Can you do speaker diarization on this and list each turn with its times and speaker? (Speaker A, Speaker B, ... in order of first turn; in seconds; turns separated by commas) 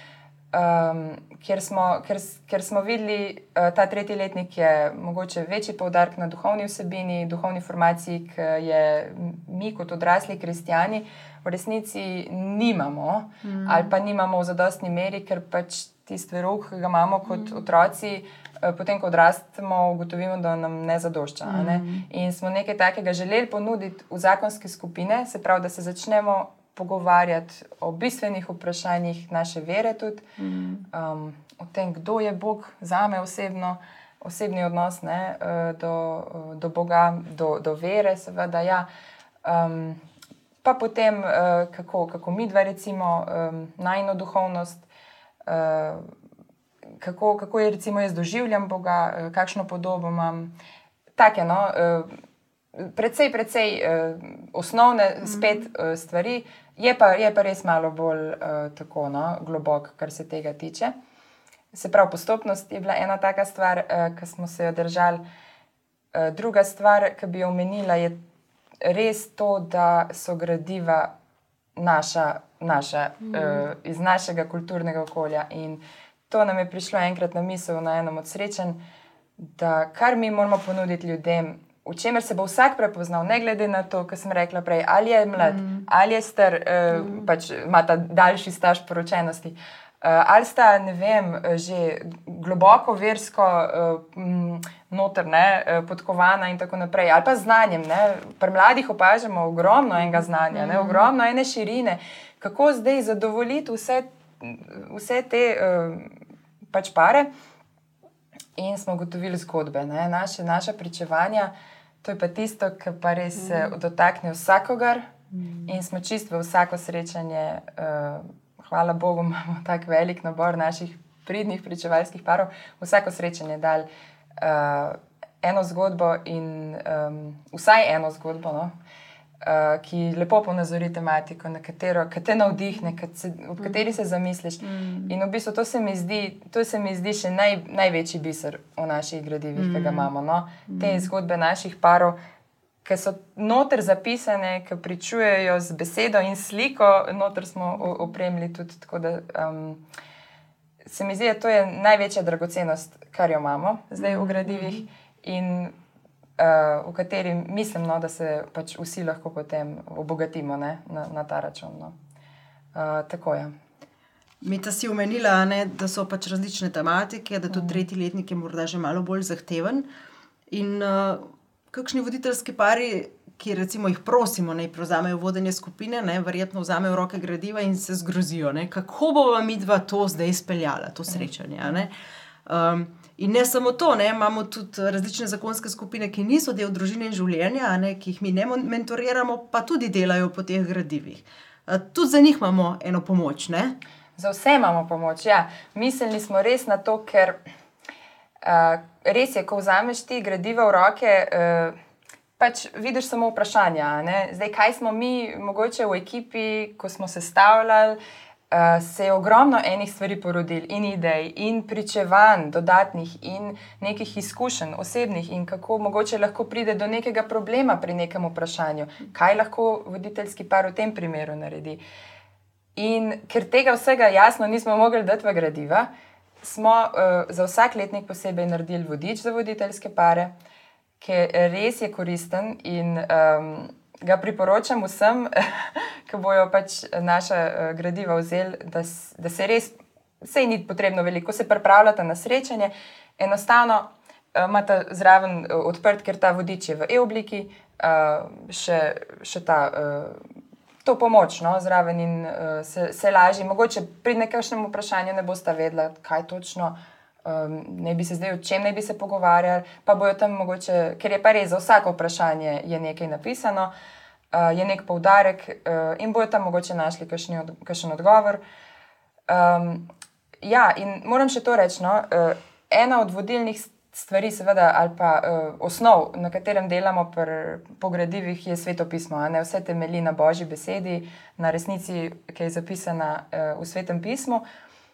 Speaker A: 0.5-30.2, Speaker B: 13.4-13.9, Speaker B: 17.2-17.6, Speaker B: 21.4-22.1, Speaker B: 30.4-30.9, Speaker A: 30.9-38.9, Speaker A: 39.4-40.0, Speaker A: 40.6-44.9, Speaker A: 45.5-46.1, Speaker A: 47.0-50.5, Speaker A: 51.1-52.1, Speaker A: 52.8-60.9, Speaker B: 55.2-55.7, Speaker A: 61.7-65.2, Speaker A: 66.1-68.2, Speaker A: 68.8-71.1, Speaker A: 71.8-78.8, Speaker A: 79.4-106.2, Speaker B: 85.4-85.8, Speaker B: 100.5-101.1, Speaker A: 106.7-107.3, Speaker A: 108.6-111.5, Speaker A: 112.0-115.1, Speaker B: 115.3-115.6, Speaker A: 115.7-123.9, Speaker A: 124.4-128.7, Speaker A: 129.4-142.2, Speaker B: 134.6-135.1, Speaker B: 139.6-140.1, Speaker B: 140.7-141.1, Speaker A: 142.8-149.8, Speaker A: 150.9-155.7, Speaker B: 154.0-154.8, Speaker A: 156.4-161.9, Speaker A: 162.7-163.5, Speaker B: 164.4-169.9, Speaker A: 167.5-167.8, Speaker B: 170.5-181.9, Speaker B: 182.4-193.8, Speaker A: 194.2-197.4, Speaker A: 198.4-201.7, Speaker A: 202.4-208.0, Speaker A: 208.5-221.8, Speaker A: 222.8-225.9, Speaker A: 226.4-230.3, Speaker A: 231.0-250.3, Speaker A: 250.8-263.7, Speaker A: 264.3-268.4, Speaker A: 269.3-269.9, Speaker A: 270.4-284.4